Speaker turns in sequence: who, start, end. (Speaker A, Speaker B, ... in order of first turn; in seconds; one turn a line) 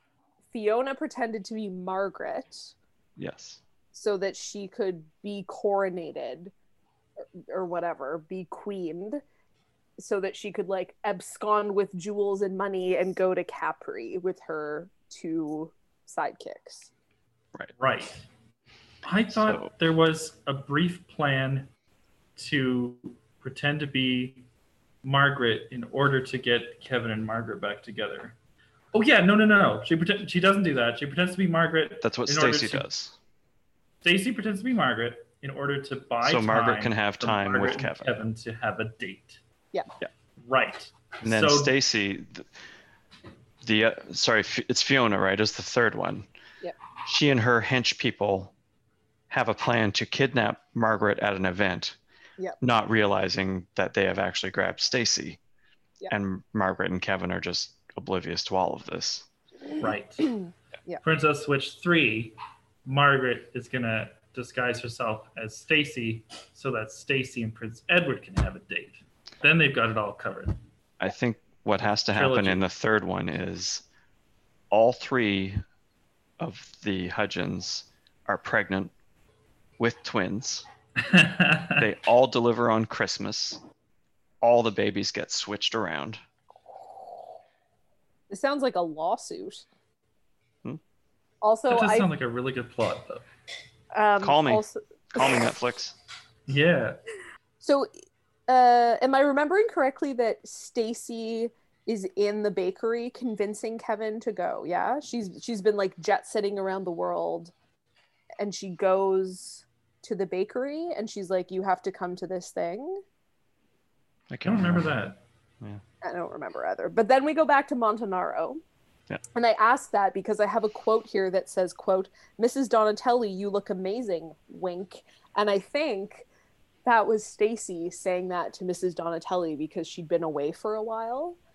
Speaker A: 0.5-2.7
Speaker B: 3.2-3.6
Speaker A: 3.9-6.5
Speaker A: 7.4-9.2
Speaker A: 10.0-16.9
Speaker C: 17.8-18.3
Speaker C: 19.0-21.7
Speaker B: 19.3-19.7
Speaker C: 22.4-24.4
Speaker C: 25.0-28.4
Speaker C: 28.9-32.9
Speaker B: 32.0-33.2
Speaker C: 34.0-39.4
Speaker B: 36.2-38.1
Speaker C: 40.4-41.7
Speaker B: 41.2-42.5
Speaker B: 43.6-46.3
Speaker B: 47.0-48.5
Speaker B: 49.3-52.0
Speaker B: 52.6-55.4
Speaker B: 56.1-59.3
Speaker C: 59.8-60.4
Speaker A: 60.5-61.0
Speaker C: 61.0-70.6
Speaker B: 71.0-73.8
Speaker C: 72.1-72.6
Speaker B: 74.7-75.6
Speaker B: 76.4-78.9
Speaker B: 79.8-80.7
Speaker C: 81.0-81.9
Speaker B: 81.8-83.6
Speaker B: 84.4-86.2
Speaker A: 88.3-89.7
Speaker A: 91.4-92.1
Speaker C: 91.7-93.3
Speaker A: 93.9-95.5
Speaker B: 94.2-96.0
Speaker C: 96.5-97.0
Speaker A: 97.6-97.9
Speaker A: 98.5-107.5
Speaker A: 108.4-113.0
Speaker B: 114.3-115.0
Speaker C: 114.5-115.2
Speaker A: 116.0-118.6
Speaker A: 119.3-126.3
Speaker A: 126.9-131.4